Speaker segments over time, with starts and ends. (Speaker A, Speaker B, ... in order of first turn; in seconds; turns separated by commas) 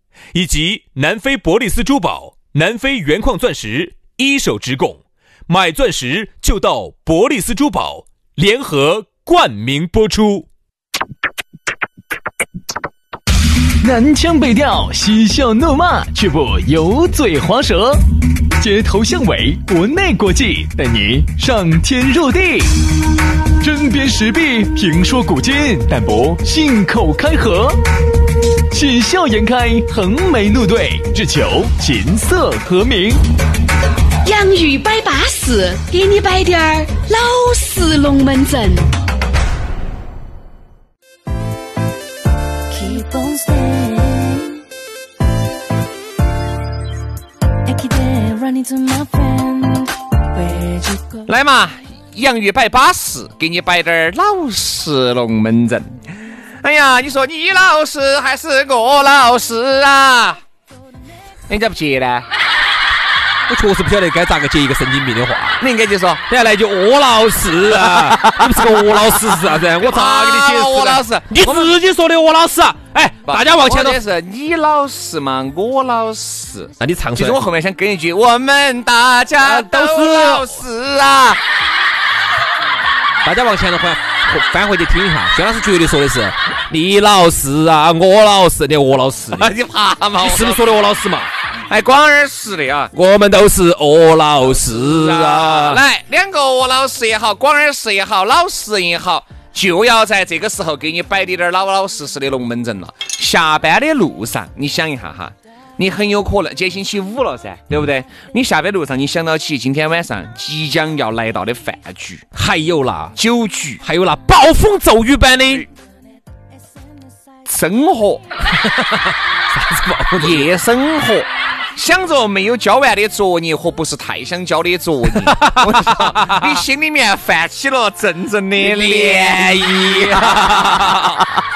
Speaker A: 0.3-10.4, Speaker B: 13.8-18.0, Speaker B: 18.6-22.8, Speaker B: 23.6-27.8, Speaker B: 28.7-33.2, Speaker C: 34.3-38.8, Speaker D: 34.3-35.5, Speaker D: 37.3-38.0, Speaker D: 42.7-44.6, Speaker D: 47.6-51.2, Speaker E: 51.2-56.0, Speaker E: 56.6-60.4, Speaker E: 61.5-62.2, Speaker A: 63.5-65.6, Speaker E: 65.6-66.2, Speaker A: 66.3-74.0, Speaker E: 67.8-71.7, Speaker E: 73.3-81.4, Speaker A: 76.8-77.4, Speaker A: 79.4-80.6, Speaker A: 83.2-89.5, Speaker E: 89.3-90.6, Speaker A: 90.2-91.3, Speaker E: 91.7-92.9, Speaker A: 92.9-95.8, Speaker E: 94.5-112.2, Speaker A: 112.3-113.2, Speaker E: 113.2-113.8, Speaker A: 113.8-115.7, Speaker E: 117.5-118.2, Speaker A: 118.5-120.5, Speaker E: 120.2-131.2, Speaker A: 125.1-126.6, Speaker A: 128.6-131.2